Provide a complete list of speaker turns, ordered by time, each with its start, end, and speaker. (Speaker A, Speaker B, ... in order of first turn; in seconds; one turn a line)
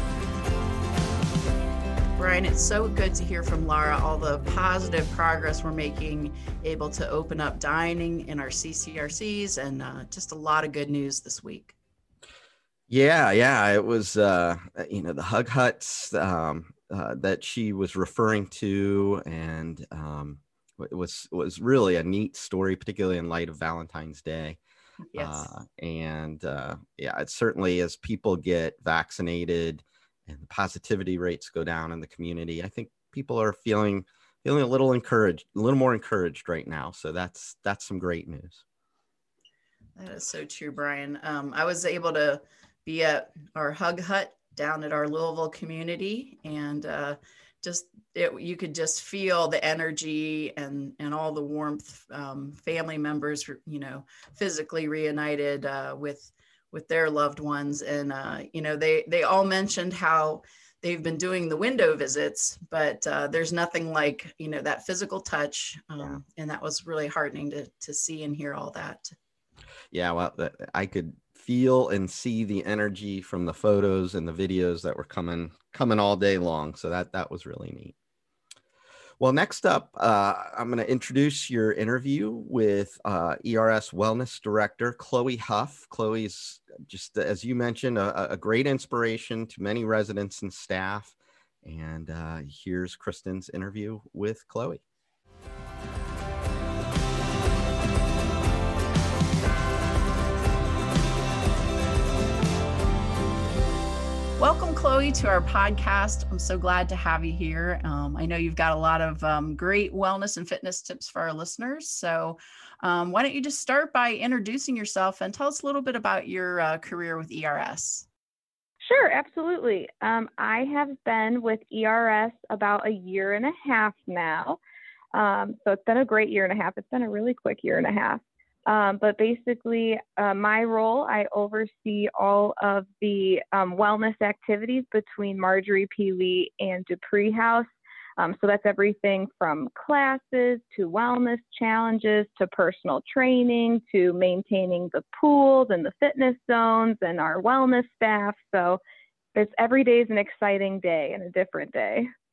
Speaker A: 2.2-11.7
Speaker B: 12.9-24.6
Speaker A: 25.1-25.5
Speaker B: 25.1-38.6
Speaker A: 40.0-69.1
Speaker B: 69.9-77.9
Speaker B: 79.2-94.8
Speaker A: 104.4-118.0
Speaker C: 118.8-124.6
Speaker C: 125.1-148.8
Speaker C: 149.3-152.1